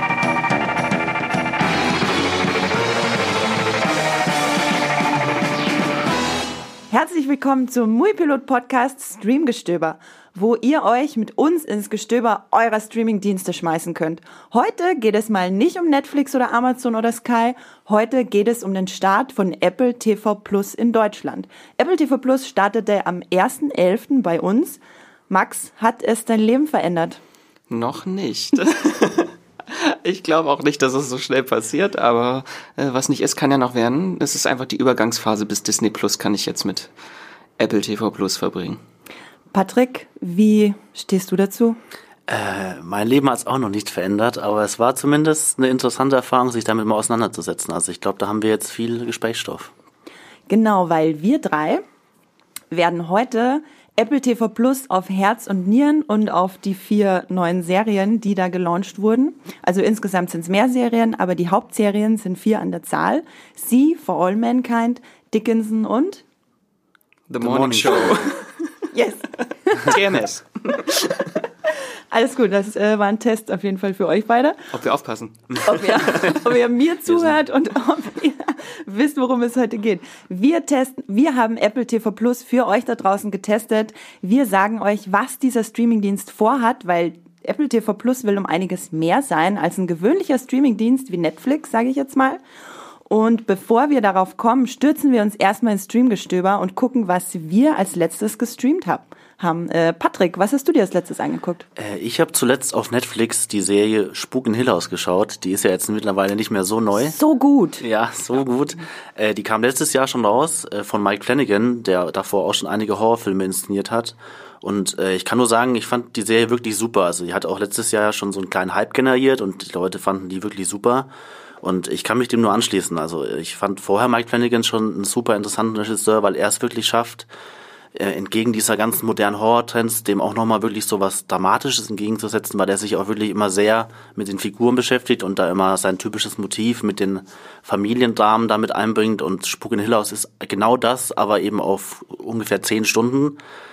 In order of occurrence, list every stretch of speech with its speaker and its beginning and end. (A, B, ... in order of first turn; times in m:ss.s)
0:06.9-0:27.2 A
0:27.7-0:36.9 B
0:37.6-0:38.8 B
0:39.5-0:41.8 A
0:42.3-0:49.7 C
0:50.5-0:51.8 A
0:52.7-1:06.2 A
1:07.3-1:08.4 B
1:07.4-1:08.2 C
1:08.9-1:10.0 A
1:09.8-1:11.2 B
1:12.1-1:14.7 A
1:14.7-1:16.6 B
1:15.6-1:32.4 A
1:33.1-1:41.6 A
1:41.8-1:47.2 C
1:47.0-1:47.8 A
1:47.8-2:01.1 C
2:01.6-2:07.3 C
2:07.9-2:23.4 C